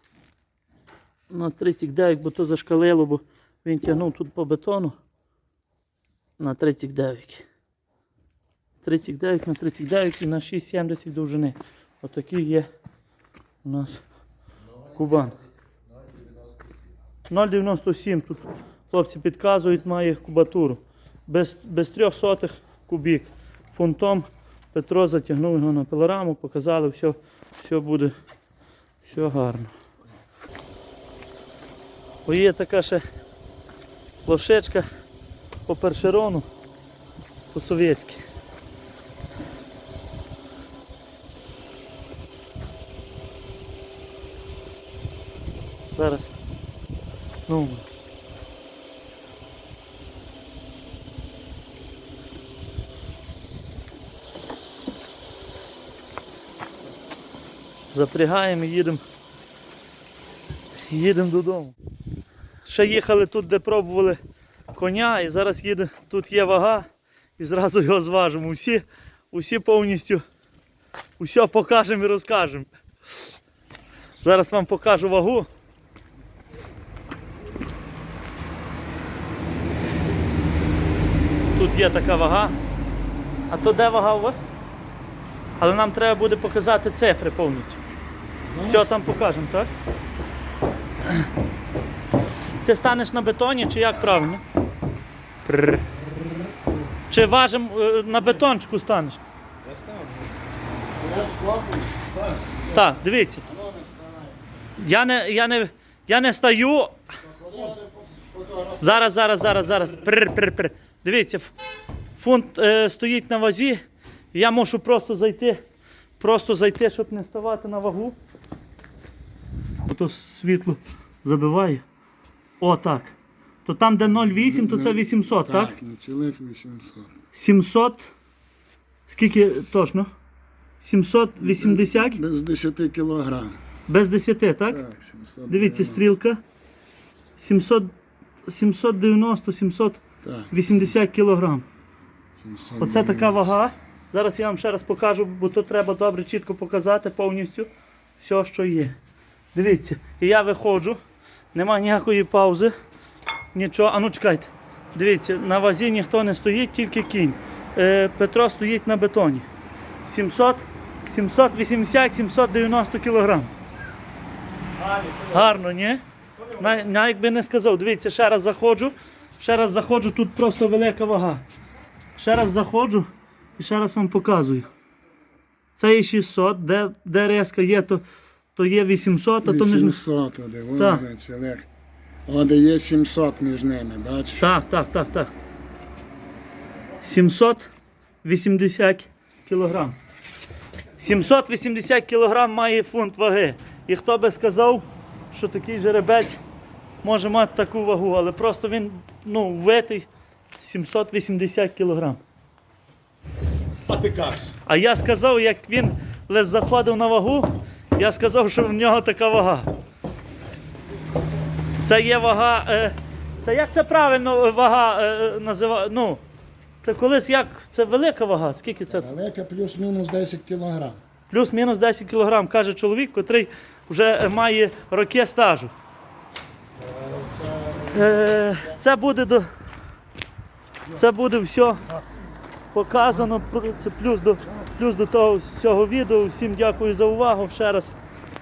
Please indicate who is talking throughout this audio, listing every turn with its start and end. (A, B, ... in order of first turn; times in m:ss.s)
0:01.3-0:05.0 A
0:06.4-0:07.4 A
0:08.8-0:12.7 A
0:13.6-0:14.0 A
0:14.9-0:15.4 A
0:17.3-0:28.1 A
0:29.0-0:29.7 A
0:32.2-0:33.0 A
0:34.2-0:34.9 A
0:35.6-0:36.5 A
0:37.5-0:38.2 A
0:45.9-0:46.3 A
0:47.5-0:47.8 A
0:57.9-0:59.0 A
1:00.8-1:01.7 A
1:02.6-1:04.2 A
1:04.7-1:06.9 A
1:07.4-1:10.2 A
1:11.2-1:12.7 A
1:14.2-1:15.5 A
1:21.5-1:22.6 A
1:23.5-1:24.4 A
1:25.6-1:27.8 A
1:28.5-1:29.0 B
1:28.6-1:29.7 A
1:32.6-1:34.4 A
1:37.1-1:39.2 A
1:39.6-1:40.3 C
1:41.0-1:42.0 B
1:42.1-1:42.4 C
1:42.6-1:44.4 B
1:42.7-1:43.4 A
1:44.8-1:47.0 A
1:47.2-1:49.1 B
1:48.8-1:51.5 A
1:52.2-1:53.8 A
1:54.3-1:55.6 A
1:56.2-1:58.2 A
1:59.8-2:01.8 A
2:02.6-2:03.1 A
2:03.6-2:05.7 A
2:04.2-2:07.1 B
2:07.3-2:08.1 A
2:09.1-2:10.1 A
2:10.8-2:12.2 A
2:11.4-2:13.6 B
2:13.9-2:14.8 A
2:14.7-2:16.0 B
2:15.5-2:16.4 A
2:17.4-2:17.9 A
2:18.5-2:20.0 A
2:20.2-2:20.9 B
2:20.5-2:21.6 A
2:22.4-2:23.4 B
2:22.8-2:27.7 A
2:28.2-2:29.0 A
2:29.5-2:31.0 A
2:31.5-2:32.7 A
2:33.5-2:39.5 A
2:40.0-2:43.5 A
2:44.8-2:45.5 C
2:45.3-2:46.0 A
2:46.6-2:51.4 A
2:52.2-2:54.7 A
2:55.8-2:58.0 A
2:58.6-3:00.0 A
2:59.4-3:01.7 B
3:00.8-3:01.0 A
3:02.2-3:04.5 B
3:04.4-3:05.3 A
3:07.0-3:07.7 A
3:08.2-3:10.0 A
3:11.0-3:16.4 A
3:17.0-3:20.1 A
3:20.6-3:22.2 A
3:23.9-3:24.5 C
3:24.6-3:29.7 A
3:31.8-3:36.2 A
3:36.8-3:39.0 A
3:38.9-3:41.0 B
3:41.3-3:45.7 A
3:46.8-3:48.4 B
3:47.9-3:49.5 A
3:50.9-3:51.8 A
3:52.7-3:57.9 A